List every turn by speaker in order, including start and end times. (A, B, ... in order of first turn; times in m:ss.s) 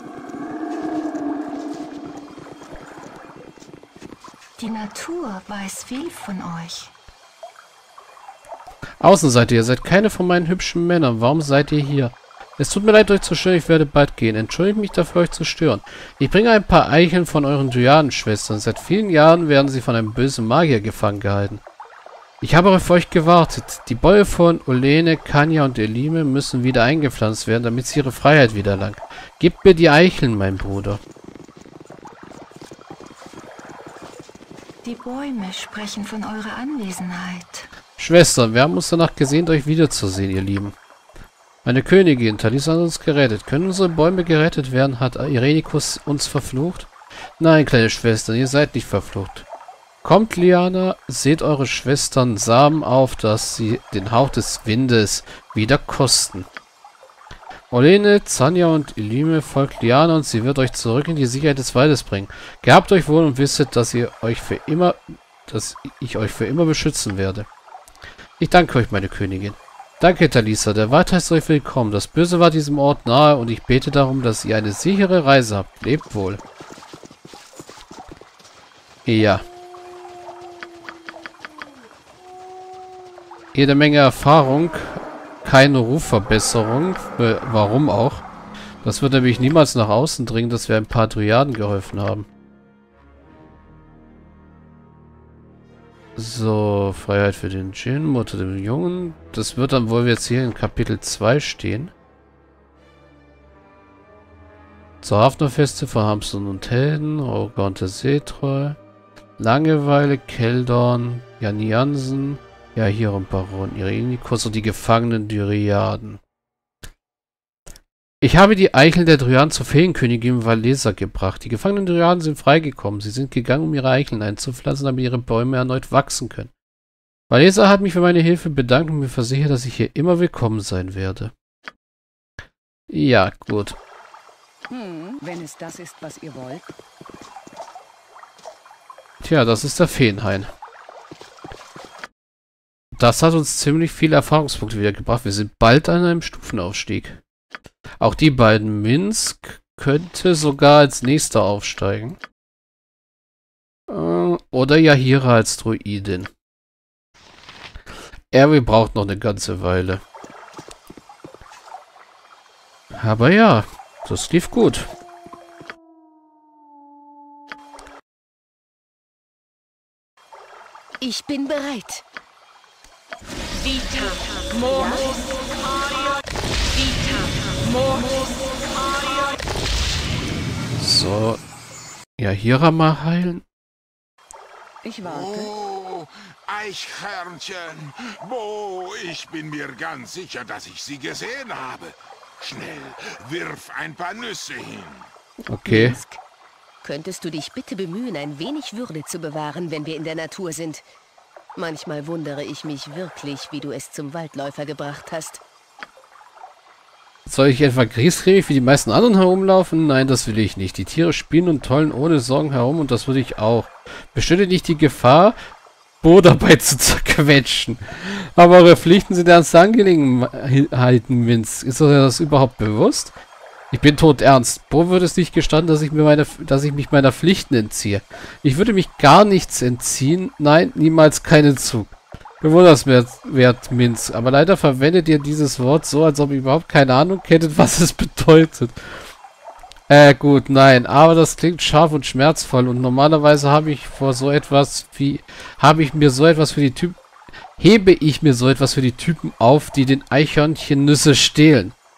0:04.6-0:06.9 A
0:09.0-0:21.6 B
0:22.4-0:31.0 B
0:34.8-0:37.7 A
0:38.0-0:40.8 B
0:41.6-0:49.5 B
0:50.0-0:56.5 B
0:57.7-1:07.5 B
1:08.4-1:16.4 B
1:19.1-1:19.4 B
1:23.5-1:28.3 B
1:28.8-1:32.3 B
1:36.2-1:41.9 B
1:45.0-1:48.8 B
1:49.4-1:56.2 B
1:58.2-2:06.5 B
2:07.3-2:11.3 B
2:12.9-2:13.8 B
2:14.7-2:16.7 C
2:19.2-2:20.5 B
2:23.0-2:27.2 B
2:28.0-2:32.2 B
2:33.9-2:36.3 B
2:38.3-2:40.0 B
2:43.0-2:44.9 B
2:51.0-2:52.0 D
2:54.7-2:55.1 C
3:00.8-3:01.4 B
3:02.2-3:03.4 B
3:04.8-3:05.5 C
3:05.0-3:15.1 E
3:15.5-3:16.0 B
3:15.6-3:16.2 D
3:16.8-3:20.8 D
3:21.6-3:25.4 D
3:27.3-3:35.4 B
3:36.0-3:43.1 B
3:43.7-3:58.8 B
3:59.9-4:07.0 B
4:07.6-4:11.8 B